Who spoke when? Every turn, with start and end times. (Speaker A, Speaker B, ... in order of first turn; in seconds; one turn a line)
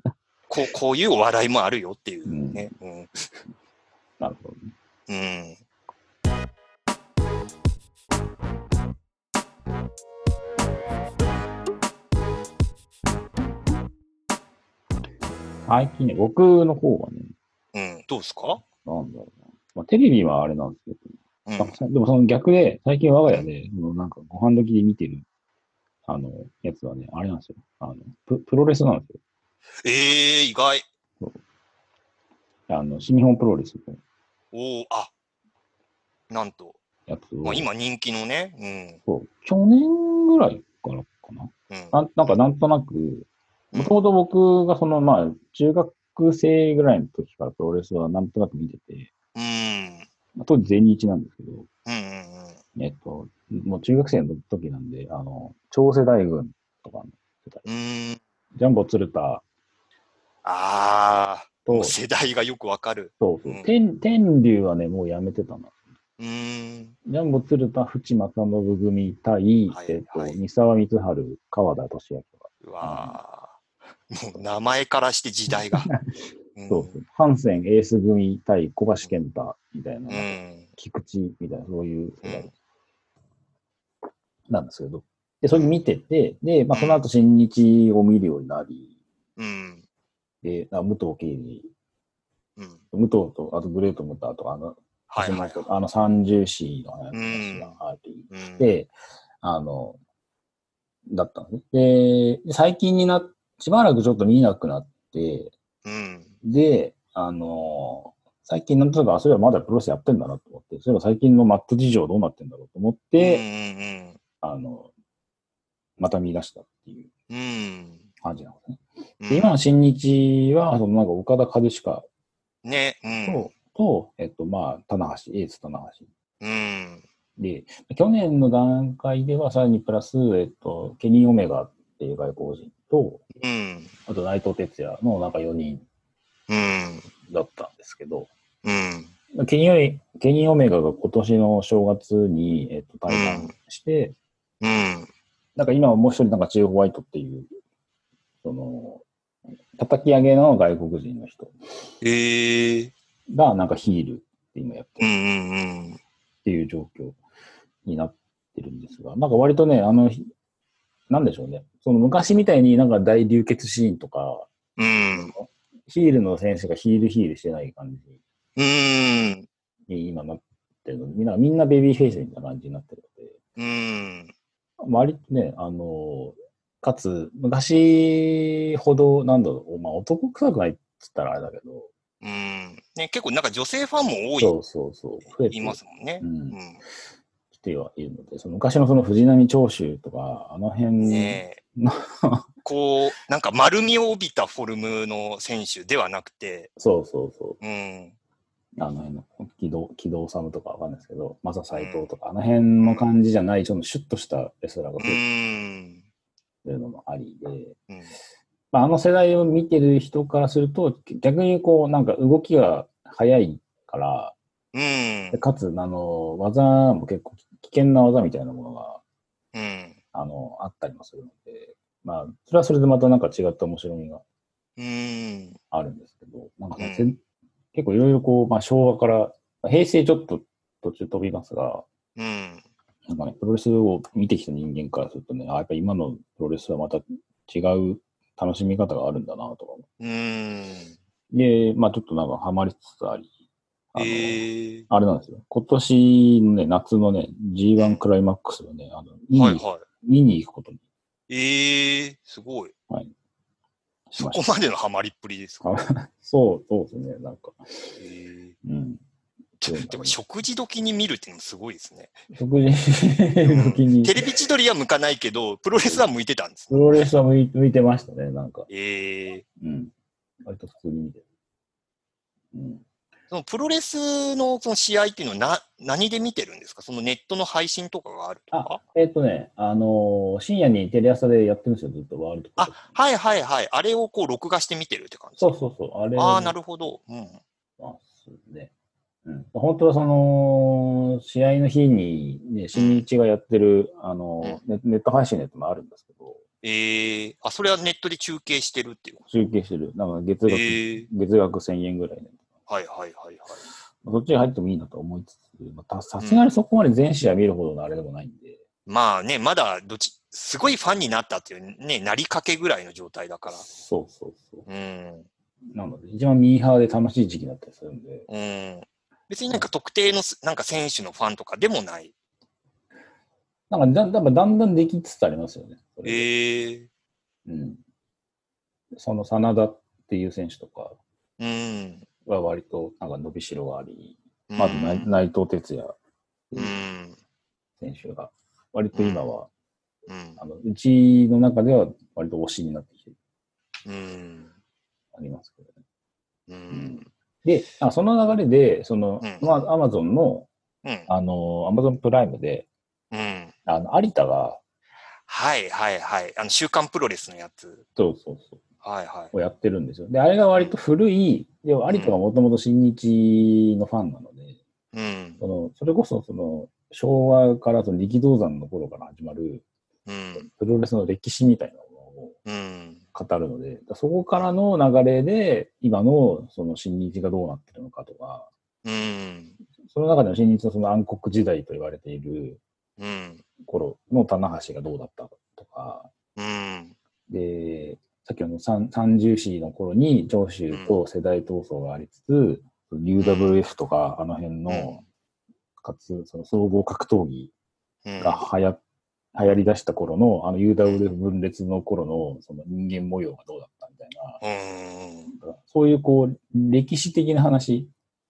Speaker A: 0.5-3.3
Speaker B: 2.3-2.7
Speaker B: 4.2-4.7
Speaker A: 5.1-5.6
Speaker B: 15.7-17.3
Speaker A: 17.7-18.6
Speaker B: 18.8-25.2
Speaker A: 21.5-21.8
Speaker B: 26.1-29.2
Speaker A: 29.8-30.9
Speaker B: 32.7-34.0
Speaker A: 34.5-35.1
Speaker A: 36.3-36.8
Speaker B: 37.1-37.7
Speaker A: 37.4-39.0
Speaker B: 39.1-49.1
Speaker A: 41.7-42.4
Speaker A: 43.7-44.0
Speaker A: 49.4-50.1
Speaker B: 50.4-51.7
Speaker A: 51.9-52.6
Speaker B: 52.8-57.7
Speaker A: 57.7-58.2
Speaker B: 58.5-59.4
Speaker A: 60.4-63.7
Speaker B: 61.6-62.0
Speaker B: 63.2-65.7
Speaker A: 66.2-67.0
Speaker B: 67.1-73.2
Speaker A: 69.7-70.4
Speaker A: 72.6-73.6
Speaker A: 74.1-75.9
Speaker B: 75.5-76.1
Speaker A: 76.6-77.0
Speaker B: 76.7-82.5
Speaker A: 80.1-80.7
Speaker A: 82.2-82.5
Speaker B: 84.5-88.9
Speaker A: 86.7-87.0
Speaker A: 89.4-89.8
Speaker B: 90.4-91.7
Speaker B: 92.9-100.0
Speaker A: 95.1-95.7
Speaker A: 97.1-97.8
Speaker A: 98.3-98.7
Speaker B: 101.1-105.5
Speaker A: 105.8-106.3
Speaker B: 106.4-113.5
Speaker A: 113.2-114.2
Speaker B: 114.4-114.9
Speaker B: 116.0-117.1
Speaker A: 117.3-118.0
Speaker B: 118.2-122.1
Speaker A: 119.2-119.5
Speaker A: 122.6-123.5
Speaker B: 123.2-126.1
Speaker A: 126.4-127.0
Speaker B: 127.4-133.2
Speaker A: 133.4-133.9
Speaker B: 134.1-135.8
Speaker A: 136.5-137.1
Speaker B: 137.2-138.3
Speaker A: 138.6-139.1
Speaker B: 139.3-144.2
Speaker A: 143.1-143.5
Speaker A: 144.6-145.1
Speaker B: 145.6-147.5
Speaker B: 148.4-149.1
Speaker B: 149.8-151.5
Speaker A: 152.0-152.9
Speaker B: 153.3-155.1
Speaker A: 155.0-156.0
Speaker B: 156.4-157.2
Speaker B: 157.8-160.2
Speaker B: 161.1-164.5
Speaker A: 164.8-165.3
Speaker B: 165.1-168.1
Speaker A: 168.6-169.5
Speaker B: 169.9-173.4
Speaker A: 173.6-174.3
Speaker B: 174.8-181.9
Speaker A: 182.2-184.5
Speaker B: 184.4-186.6
Speaker A: 185.3-186.8
Speaker B: 187.5-192.5
Speaker A: 191.0-191.6
Speaker A: 192.7-196.7
Speaker B: 196.8-197.6
Speaker A: 197.6-198.2
Speaker B: 198.8-205.2
Speaker A: 201.7-202.1
Speaker A: 202.8-203.1
Speaker A: 205.0-206.0
Speaker B: 206.6-207.8
Speaker B: 208.7-214.3
Speaker A: 214.7-215.4
Speaker B: 215.3-219.0
Speaker A: 219.5-220.0
Speaker B: 220.1-224.2
Speaker A: 224.8-225.6
Speaker B: 225.7-227.2
Speaker A: 226.8-227.1
Speaker B: 227.7-231.9
Speaker A: 232.2-232.7
Speaker B: 233.1-239.8
Speaker A: 240.0-241.0
Speaker B: 241.3-243.3
Speaker B: 243.9-250.8
Speaker A: 244.0-244.9
Speaker A: 247.8-248.0
Speaker A: 249.3-249.8
Speaker A: 251.3-252.7
Speaker B: 254.1-254.4
Speaker A: 254.2-255.6
Speaker B: 255.6-257.9
Speaker A: 258.0-258.6
Speaker B: 258.6-259.0
Speaker A: 259.6-262.1
Speaker B: 259.7-260.2
Speaker B: 262.3-264.2
Speaker A: 263.4-267.1
Speaker B: 265.8-266.1
Speaker B: 266.7-268.7
Speaker A: 268.7-269.4
Speaker B: 269.6-269.9
Speaker B: 270.5-271.2
Speaker B: 272.5-272.8
Speaker A: 273.3-278.8
Speaker B: 278.5-282.9
Speaker A: 282.6-285.5
Speaker B: 285.4-286.6
Speaker A: 286.2-287.4
Speaker B: 287.8-288.7
Speaker B: 289.3-296.4
Speaker A: 292.7-293.1
Speaker A: 296.6-299.2
Speaker B: 299.3-302.4
Speaker A: 300.5-301.1
Speaker A: 302.7-303.6
Speaker B: 304.0-308.6
Speaker A: 306.2-306.5
Speaker A: 308.9-313.7
Speaker B: 313.5-314.7
Speaker A: 314.7-315.3
Speaker B: 315.7-318.3
Speaker A: 318.3-322.1
Speaker B: 323.7-326.3
Speaker A: 326.1-326.9
Speaker B: 327.5-327.8
Speaker B: 328.9-331.0
Speaker A: 331.4-332.1
Speaker B: 332.2-335.9
Speaker A: 334.5-335.1
Speaker B: 336.5-336.8
Speaker A: 336.6-337.2
Speaker B: 337.8-339.5
Speaker A: 338.9-339.4
Speaker A: 340.1-340.4
Speaker B: 340.4-343.1
Speaker A: 343.9-344.5
Speaker B: 345.1-345.7
Speaker A: 346.5-347.1
Speaker B: 346.7-350.5
Speaker A: 349.2-349.6
Speaker A: 350.8-351.1
Speaker B: 351.1-352.7
Speaker A: 353.1-353.5
Speaker B: 353.7-354.6
Speaker A: 355.3-357.8
Speaker B: 358.0-358.6
Speaker A: 358.8-359.3
Speaker B: 359.3-364.6
Speaker A: 361.9-362.2
Speaker A: 364.9-365.4
Speaker B: 365.4-369.6
Speaker A: 370.1-370.5
Speaker B: 370.4-372.4
Speaker A: 372.5-373.0
Speaker B: 373.1-378.5
Speaker A: 378.8-379.6
Speaker B: 379.8-382.6
Speaker A: 383.0-383.4
Speaker B: 383.6-386.1
Speaker A: 386.4-386.9
Speaker B: 387.3-395.0
Speaker A: 390.7-391.0
Speaker A: 393.2-393.6
Speaker A: 394.7-395.0
Speaker B: 395.8-397.5
Speaker A: 398.1-398.5
Speaker B: 398.2-398.8
Speaker B: 399.4-404.4
Speaker A: 400.8-401.2
Speaker A: 404.4-405.3
Speaker B: 405.3-407.9